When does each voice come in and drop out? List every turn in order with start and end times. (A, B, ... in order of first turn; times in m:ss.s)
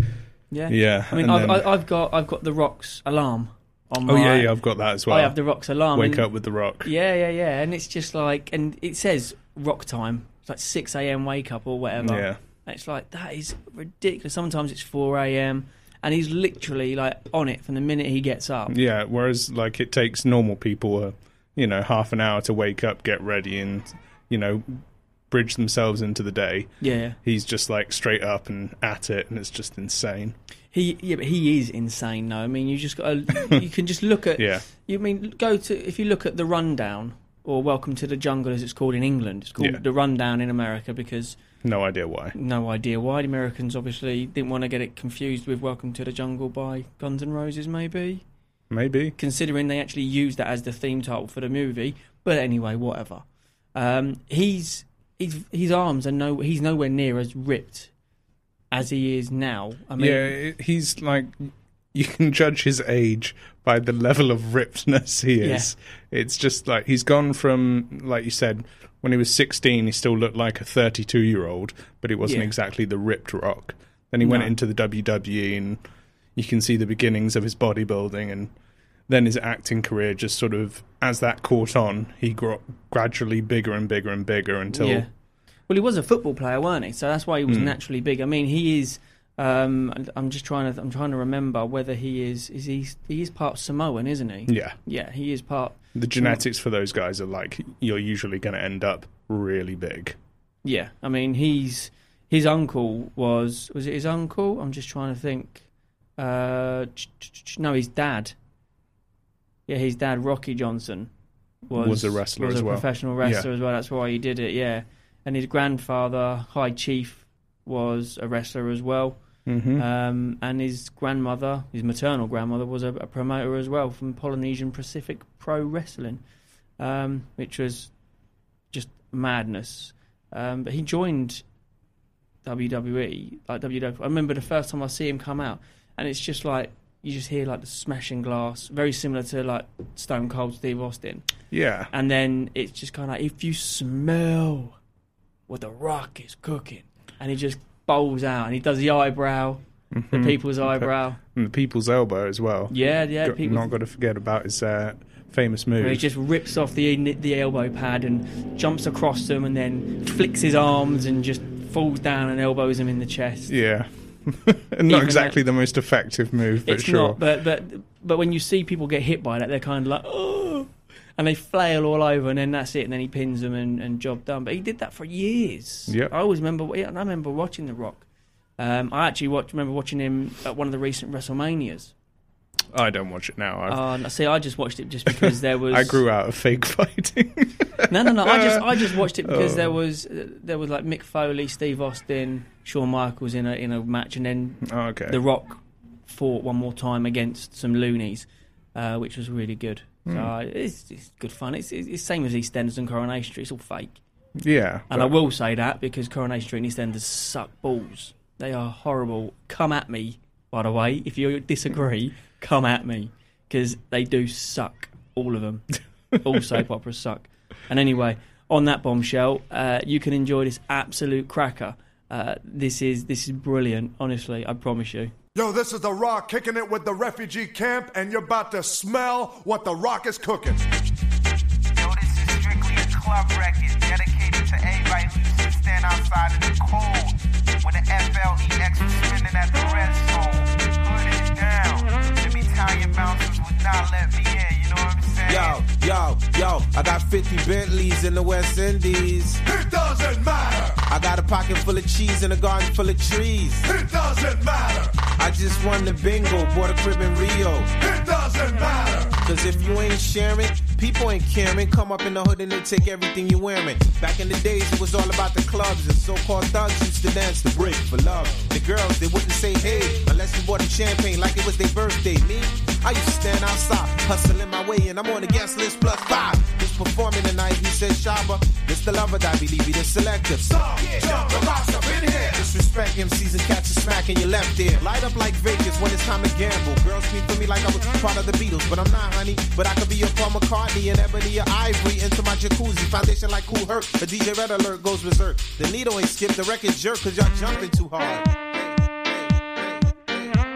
0:00.5-0:04.5 A
0:00.7-0:01.7 B
0:04.0-0:05.4 B
0:05.1-0:06.3 A
0:05.9-0:06.9 B
0:06.8-0:18.7 A
0:12.0-0:12.4 B
0:18.7-0:30.3 B
0:26.8-0:27.2 A
0:30.7-0:41.4 A
0:34.4-0:34.6 B
0:41.6-0:42.3 B
0:42.3-0:48.2 A
0:48.7-0:49.2 B
0:49.2-0:53.2 A
0:53.7-0:57.9 A
0:58.7-1:00.3 A
1:00.0-1:15.8 B
1:05.4-1:05.7 A
1:12.2-1:12.5 A
1:14.2-1:14.5 A
1:16.4-1:18.5 B
1:19.1-1:25.1 B
1:24.7-1:25.1 A
1:25.7-1:36.4 A
1:27.5-1:27.8 B
1:34.5-1:34.8 B
1:35.9-1:40.2 B
1:40.6-1:45.6 A
1:46.2-1:48.3 A
1:49.7-1:51.1 A
1:51.6-1:59.2 A
1:51.7-1:53.5 B
1:59.4-1:59.8 B
1:59.7-2:06.2 A
2:06.8-2:07.9 A
2:08.7-2:11.4 A
2:12.4-2:21.2 A
2:21.5-2:21.9 B
2:21.9-2:24.8 A
2:25.5-2:31.2 A
2:29.9-2:36.1 B
2:32.7-2:33.7 A
2:35.8-2:43.5 A
2:43.5-2:47.2 B
2:44.9-2:45.4 A
2:46.6-2:58.0 A
2:55.9-2:56.1 B
2:58.6-3:01.9 A
3:02.7-3:03.8 B
3:03.7-3:06.0 A
3:05.1-3:09.7 B
3:07.9-3:24.0 A
3:14.6-3:15.2 B
3:20.0-3:20.3 B
3:24.4-3:25.1 B
3:24.9-3:35.6 A
3:36.2-3:45.1 A
3:45.3-3:50.6 C
3:51.8-3:57.1 D
3:57.6-4:05.5 D
4:05.2-4:09.4 E
4:09.4-4:10.8 C
4:10.9-4:13.7 E
4:13.6-4:15.0 C
4:15.1-4:17.7 E
4:17.8-4:19.2 C
4:19.2-4:58.4 E
4:40.6-4:42.4 C
4:59.3-4:59.8 E